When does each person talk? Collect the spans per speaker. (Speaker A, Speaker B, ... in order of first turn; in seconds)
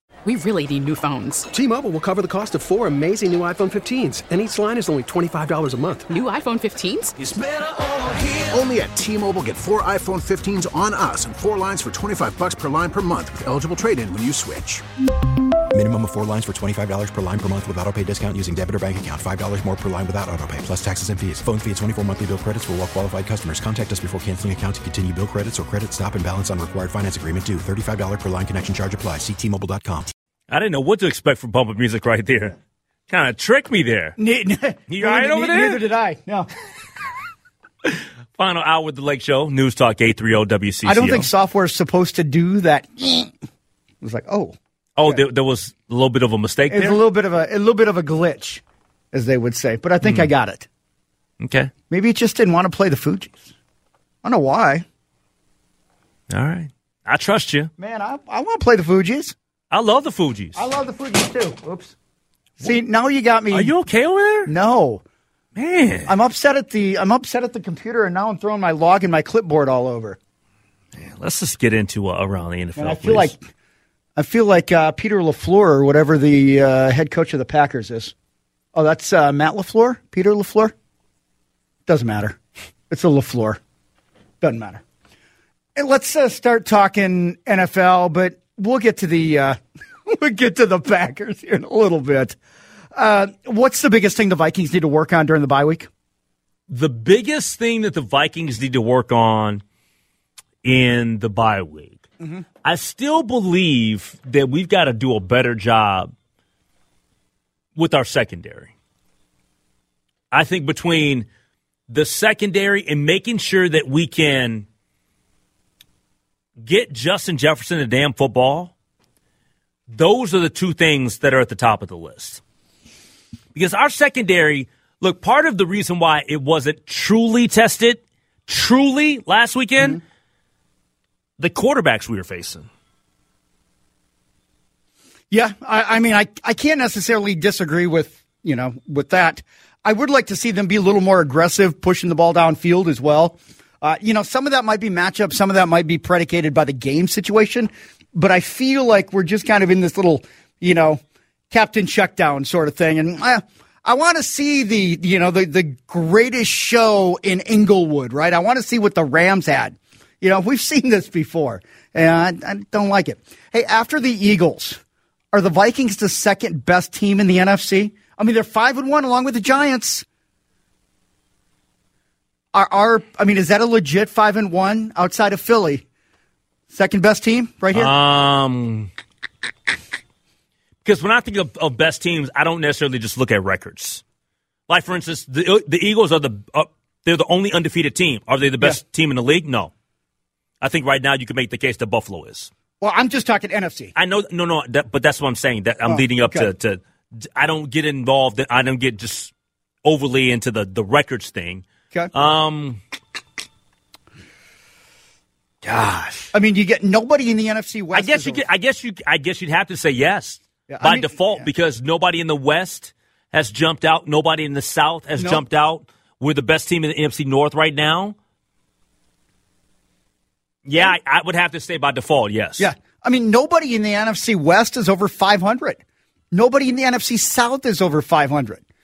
Speaker A: 0.2-1.5, 6.1-7.1
Speaker B: 1.5-6.1
Speaker C: 7.2-14.8
Speaker D: 15.7-30.1
Speaker E: 30.5-32.5, 33.1-34.2, 34.9-35.8, 37.8-41.3, 45.0-47.0, 50.0-50.3, 51.4-51.7, 56.3-57.7, 59.7-60.6, 63.5-64.5, 65.5-66.1, 71.0-73.3, 96.7-99.6, 100.6-102.0, 102.6-106.1, 107.8-108.7, 110.3-111.3, 111.9-114.7, 116.6-118.7, 119.9-122.4, 123.5-130.0, 131.4-132.7, 177.7-178.9, 180.8-184.0, 184.7-189.7, 190.6-192.5, 193.9-199.3, 199.8-202.8, 205.6-206.3, 207.9-218.2, 220.6-222.7
Speaker F: 34.2-36.5, 40.8-43.3, 44.0-45.2, 46.7-48.6, 49.1-50.6, 51.9-53.4, 54.2-54.8, 57.8-59.3, 60.5-61.9, 62.6-63.7, 64.5-65.0, 66.0-70.2, 72.8-73.4, 74.2-78.1, 78.7-80.7, 81.8-82.4, 82.9-83.6, 84.4-84.8, 85.8-92.3, 92.9-95.9, 135.3-164.8, 165.3-170.0, 172.5-175.8, 176.7-177.9, 192.8-193.9, 195.8-196.5, 206.3-208.4, 210.7-211.5, 215.2-215.4, 222.6-225.8, 226.3-228.6